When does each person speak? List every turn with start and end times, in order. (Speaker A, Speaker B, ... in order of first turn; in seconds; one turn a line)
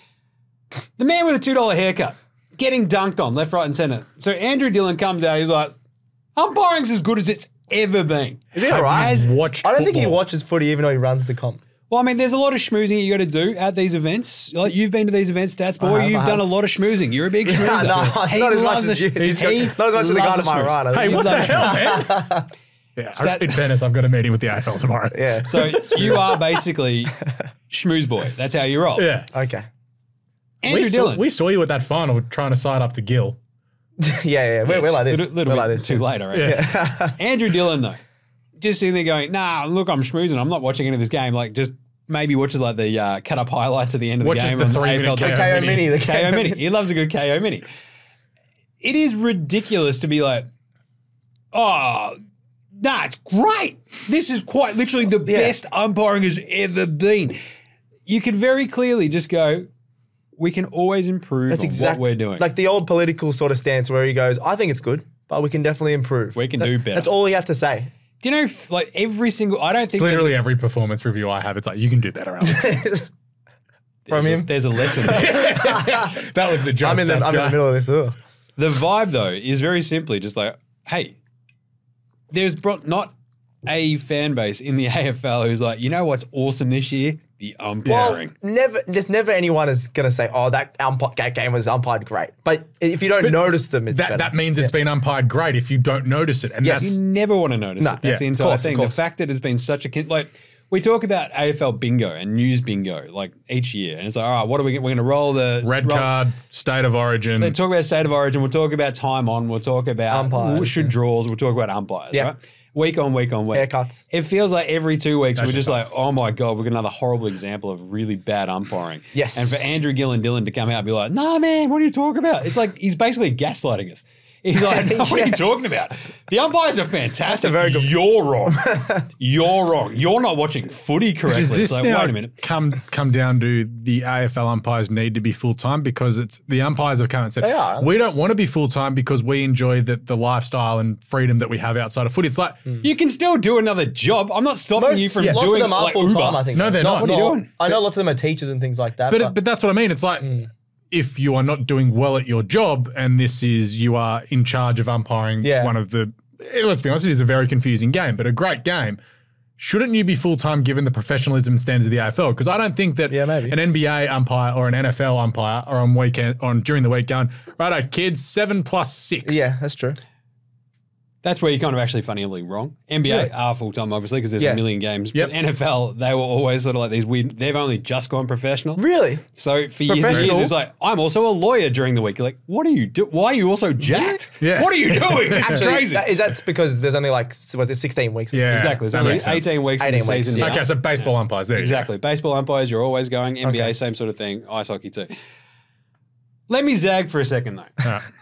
Speaker A: 1.0-5.7
Speaker A: 6.4-9.3
Speaker B: 8.5-10.2
Speaker C: 8.6-11.6
Speaker A: 11.9-21.9
Speaker C: 15.8-16.5
Speaker C: 17.5-22.5
Speaker B: 20.9-22.2
Speaker B: 23.0-25.4
Speaker A: 23.2-23.7
Speaker C: 25.1-26.4
Speaker A: 25.5-27.1
Speaker A: 27.7-29.1
Speaker B: 29.0-29.3
Speaker C: 29.3-29.6
Speaker A: 30.6-31.3
Speaker B: 30.7-33.4
Speaker C: 34.0-37.2
Speaker A: 34.7-38.0
Speaker B: 36.3-36.7
Speaker A: 38.6-47.6
Speaker B: 44.2-45.9
Speaker C: 44.9-46.6
Speaker A: 48.8-50.5
Speaker A: 51.5-52.2
Speaker A: 52.8-57.4
Speaker C: 55.3-55.5
Speaker A: 58.1-59.7
Speaker A: 60.4-62.5
Speaker C: 61.5-67.9
Speaker A: 66.3-67.1
Speaker A: 68.2-70.3
Speaker B: 69.9-72.8
Speaker C: 72.4-73.1
Speaker A: 74.1-75.5
Speaker C: 74.1-74.5
Speaker B: 75.0-77.6
Speaker C: 75.0-76.1
Speaker C: 76.8-78.2
Speaker A: 78.6-81.2
Speaker A: 82.3-83.2
Speaker A: 83.7-88.3
Speaker B: 87.9-88.2
Speaker C: 87.9-94.7
Speaker B: 93.2-97.0
Speaker C: 96.6-96.9
Speaker A: 96.8-106.2
Speaker C: 97.8-99.0
Speaker B: 105.6-107.5
Speaker A: 107.4-132.3
Speaker C: 110.1-110.9
Speaker C: 113.5-114.1
Speaker B: 115.4-115.9
Speaker C: 119.1-119.6
Speaker C: 124.6-125.4
Speaker C: 127.3-127.9
Speaker C: 128.5-129.0
Speaker B: 131.3-142.8
Speaker C: 137.4-137.9
Speaker A: 142.8-147.8
Speaker C: 144.8-149.4
Speaker B: 146.5-147.2
Speaker B: 149.1-150.4
Speaker B: 150.9-159.0
Speaker C: 155.4-155.8
Speaker B: 159.6-169.5
Speaker C: 163.1-163.6
Speaker C: 169.2-170.0
Speaker A: 171.2-178.8
Speaker C: 178.8-179.2
Speaker A: 179.3-186.1
Speaker C: 179.9-180.5
Speaker B: 180.1-180.4
Speaker C: 183.8-184.2
Speaker B: 184.4-185.7
Speaker C: 185.4-190.6
Speaker B: 188.3-189.6
Speaker A: 188.5-195.1
Speaker B: 190.4-191.9
Speaker C: 193.4-193.8
Speaker A: 196.5-197.8